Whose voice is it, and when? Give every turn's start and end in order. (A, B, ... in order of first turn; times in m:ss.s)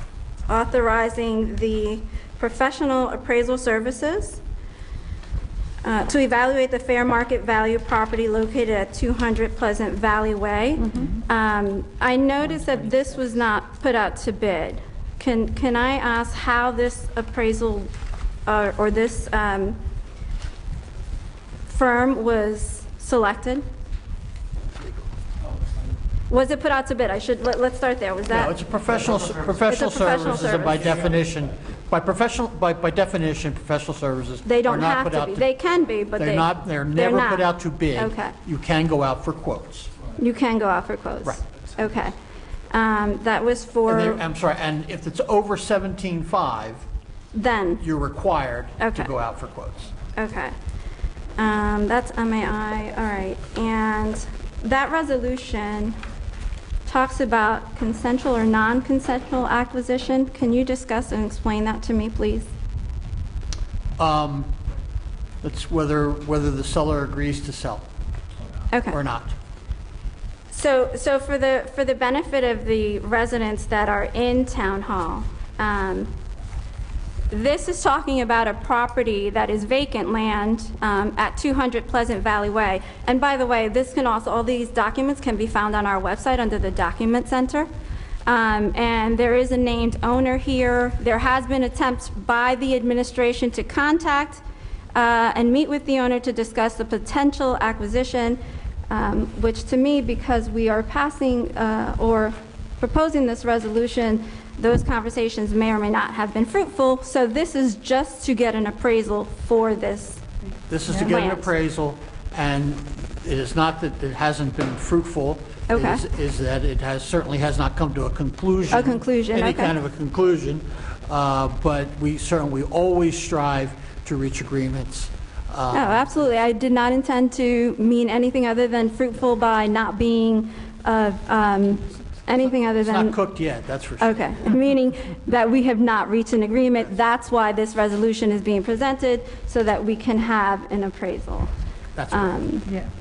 0:00.5-0:04.4 A
0:05.8-0:17.9 A
0:18.5-0:19.8 A
0:21.7-0:23.6 A
0:26.3-0:28.6 A
0:28.3-0:35.5 B
0:29.7-0:31.1 A
0:34.4-0:38.4 A
0:36.2-0:39.9 B
0:40.2-0:42.1 A
0:42.7-0:44.2 A
0:43.9-0:46.8 B
0:47.3-0:47.8 A
0:47.8-0:49.9 B
0:48.8-0:49.1 A
0:50.2-0:50.5 A
0:51.4-0:56.0 A
0:56.9-1:02.5 A
1:04.0-1:04.5 B
1:05.4-1:07.9 B
1:08.7-1:09.0 A
1:08.9-1:09.3 B
1:10.5-1:16.1 A
1:17.3-1:27.7 A
1:28.3-1:34.4 A
1:35.0-1:50.2 A
1:50.7-2:06.1 B
1:50.9-1:51.5 A
1:55.7-1:56.0 A
1:58.7-1:59.8 A
2:05.7-2:13.2 A
2:12.9-2:14.2 B
2:14.0-2:21.5 A
2:22.0-2:22.4 B
2:22.1-2:22.7 A